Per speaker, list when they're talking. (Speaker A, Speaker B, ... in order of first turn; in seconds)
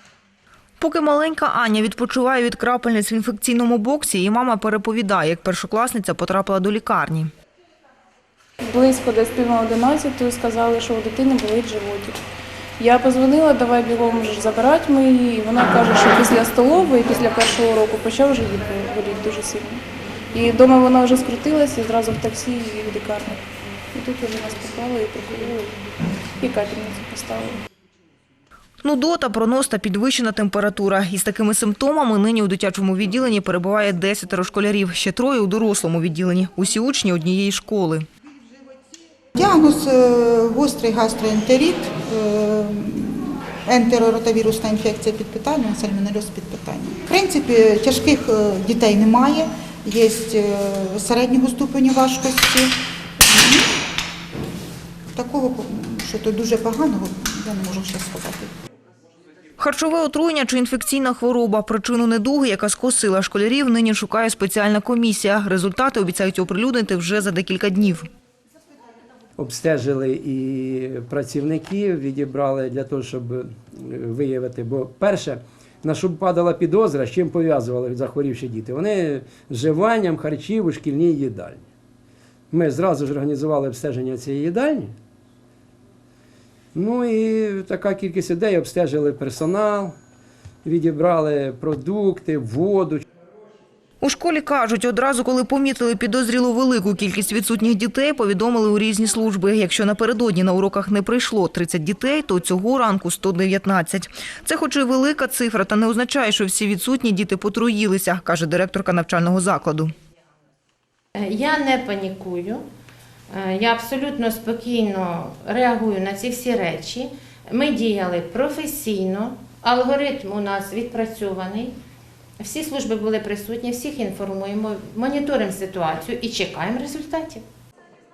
Speaker A: 0.8-7.3, 28.8-38.0, 59.6-68.1, 94.0-109.9
Speaker B: 8.6-12.2, 12.8-23.4, 23.9-25.8, 26.4-27.6
Speaker C: 39.4-53.7, 55.1-58.5
Speaker D: 69.4-81.6, 82.5-84.9, 86.8-90.0, 90.7-93.0
Speaker E: 111.2-112.6, 113.3-121.7, 122.4-127.4